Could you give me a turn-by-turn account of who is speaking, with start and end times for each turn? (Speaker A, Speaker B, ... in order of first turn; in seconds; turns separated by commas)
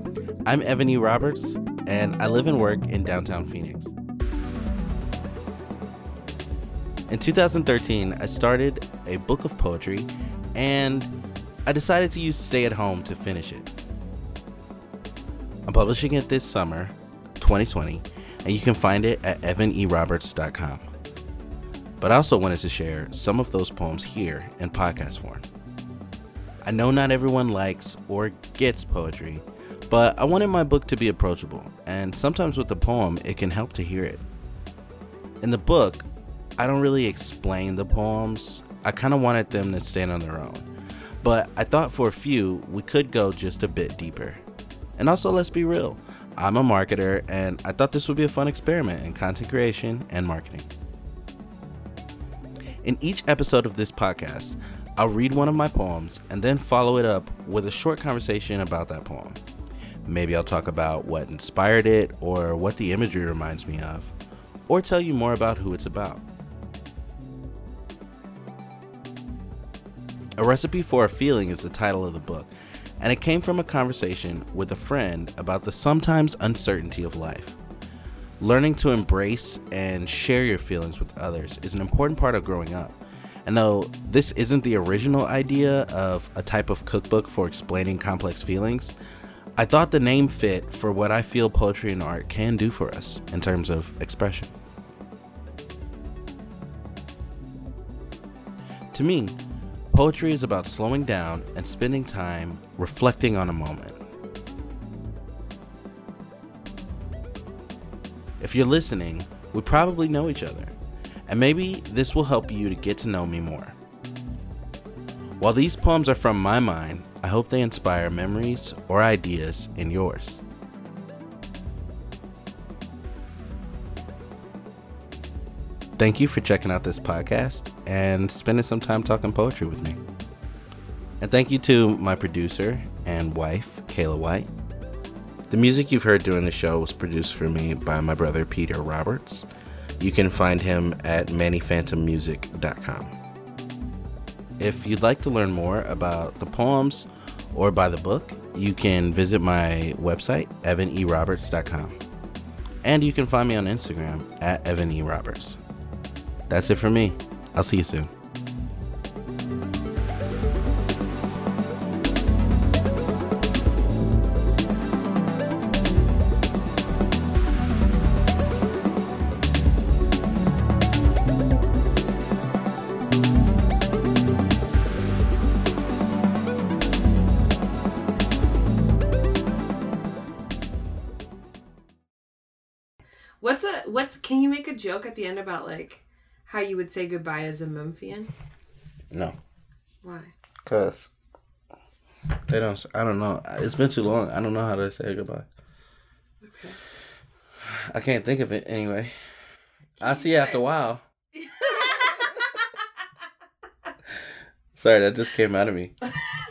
Speaker A: 0.5-3.9, Speaker A: 7.1-11.1, Speaker A: 11.7-13.7, Speaker A: 15.7-20.9, Speaker A: 22.0-25.4, Speaker A: 26.6-34.2, Speaker A: 35.4-36.1, Speaker A: 36.6-40.7, Speaker A: 41.2-44.4, Speaker A: 45.0-50.7, Speaker A: 52.8-59.4, Speaker A: 60.0-64.1, Speaker A: 64.7-66.2, Speaker A: 70.4-72.5, Speaker A: 73.0-77.6, Speaker A: 78.4-88.9, Speaker A: 89.6-94.5, Speaker A: 98.9-99.3, Speaker A: 99.9-104.0, Speaker A: 108.4-110.8, Speaker A: 111.3-113.8, Speaker A: 115.4-120.4, Speaker A: 126.0-130.0, Speaker A: 131.2-134.5, Speaker A: 135.5-139.5, Speaker A: 140.0-143.1, Speaker A: 144.6-152.0, Speaker A: 152.8-155.6, Speaker A: 156.5-158.1, Speaker B: 183.4-188.3, Speaker A: 189.1-189.3, Speaker B: 190.0-190.3, Speaker A: 190.6-191.1, Speaker A: 192.5-195.5, Speaker B: 196.4-196.8, Speaker A: 197.7-199.1, Speaker B: 200.0-200.6, Speaker A: 200.0-201.0, Speaker B: 201.3-202.6, Speaker A: 204.7-205.9